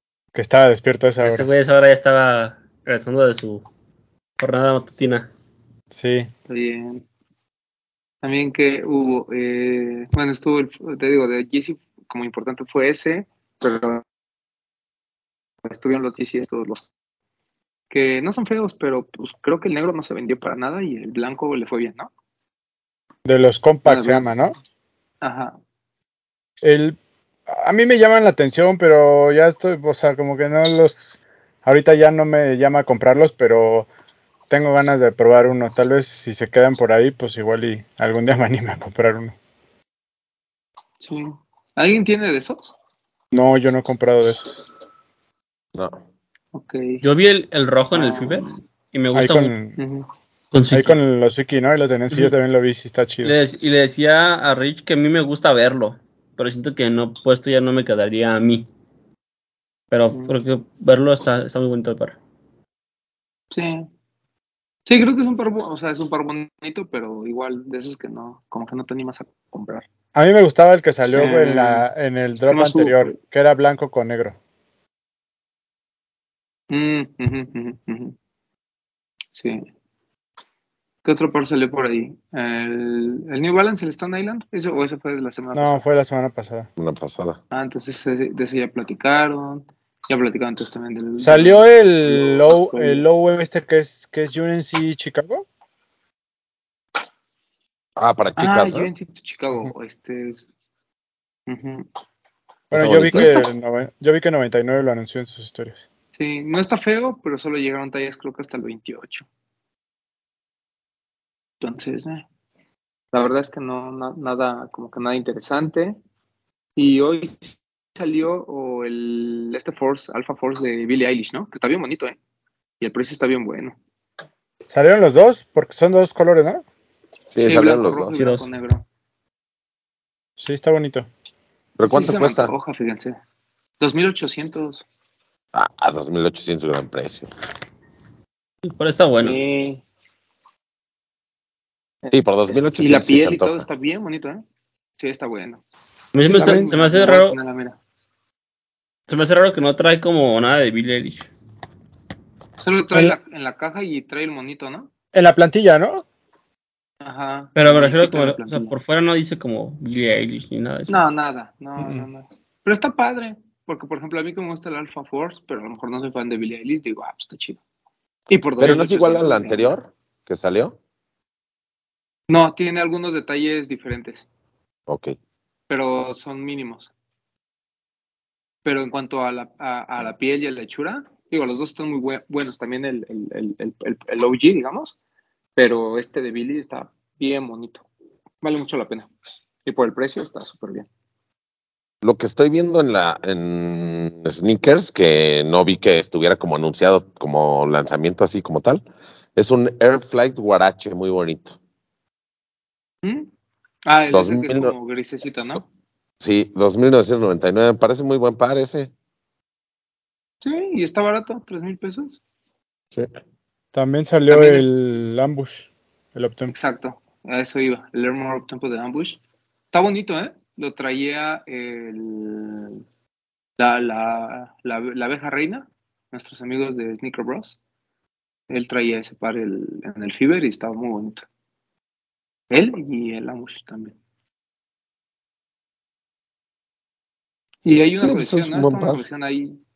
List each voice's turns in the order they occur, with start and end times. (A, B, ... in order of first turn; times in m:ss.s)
0:00.3-0:01.5 A
0:01.2-0:03.7 B
0:04.4-0:05.3 B
0:05.9-0:06.3 A
0:06.5-0:07.0 C
0:08.2-0:14.0 C
0:15.6-0:16.9 C
0:17.9-0:22.1 C
0:23.2-0:24.6 A
0:23.8-0:24.3 C
0:25.2-0:25.6 C
0:26.6-0:27.0 A
0:27.5-0:33.9 A
0:34.5-0:39.4 A
0:41.0-0:42.8 C
0:43.3-0:44.6 A
0:45.8-0:46.0 D
0:46.5-0:47.0 C
0:47.0-0:49.6 B
0:47.9-0:48.6 C
0:49.1-0:49.8 A
0:49.8-0:50.1 C
0:50.5-0:51.0 B
0:50.7-0:53.3 A
0:53.2-0:58.7 B
0:59.9-1:02.2 B
1:03.5-1:03.9 C
1:04.9-1:09.9 C
1:10.2-1:14.4 A
1:11.1-1:11.8 C
1:12.5-1:13.2 C
1:16.7-1:18.2 C
1:19.3-1:19.7 C
1:21.0-1:25.8 C
1:25.6-1:26.7 A
1:26.8-1:27.4 D
1:27.5-1:33.0 C
1:31.2-1:35.4 A
1:38.0-1:38.9 D
1:38.4-1:40.5 C
1:41.5-1:41.9 C
1:42.7-1:45.8 A
1:42.7-1:43.5 D
1:46.2-1:49.3 C
1:51.6-1:52.3 C
1:53.1-1:56.0 C
1:56.8-2:02.2 C
2:02.8-2:03.8 C
2:04.7-2:06.6 A
2:07.3-2:08.1 D
2:07.4-2:08.8 C
2:08.2-2:08.5 B
2:10.4-2:11.1 A
2:11.8-2:12.5 D
2:11.8-2:13.2 C
2:13.8-2:14.8 C
2:15.5-2:17.3 D
2:18.6-2:19.4 B
2:19.2-2:19.8 C
2:22.0-2:24.4 C
2:22.1-2:23.6 D
2:25.0-2:25.6 C
2:26.1-2:27.4 B
2:26.2-2:27.8 C
2:29.1-2:31.3 B
2:32.6-2:34.9 C
2:35.1-2:36.0 A
2:37.0-2:38.7 C
2:37.6-2:41.0 B
2:40.9-2:47.6 C
2:48.3-2:49.8 C
2:48.6-2:50.8 D
2:52.3-2:54.3 C
2:54.9-2:55.2 D
2:55.7-2:56.9 C
2:58.6-3:05.0 C
3:05.6-3:07.9 C
3:08.4-3:09.1 C
3:09.6-3:10.9 C
3:12.0-3:18.8 D
3:19.4-3:21.6 D
3:23.0-3:23.3 C
3:23.9-3:25.6 C
3:24.1-3:24.7 D
3:26.2-3:28.9 D
3:30.4-3:32.2 C
3:33.7-3:36.5 A
3:34.3-3:34.7 C
3:36.5-3:39.2 C
3:39.7-3:42.8 C
3:43.6-3:47.6 C
3:48.5-3:51.3 C
3:52.5-3:54.0 C
3:57.6-3:59.6 C
3:58.0-3:59.0 D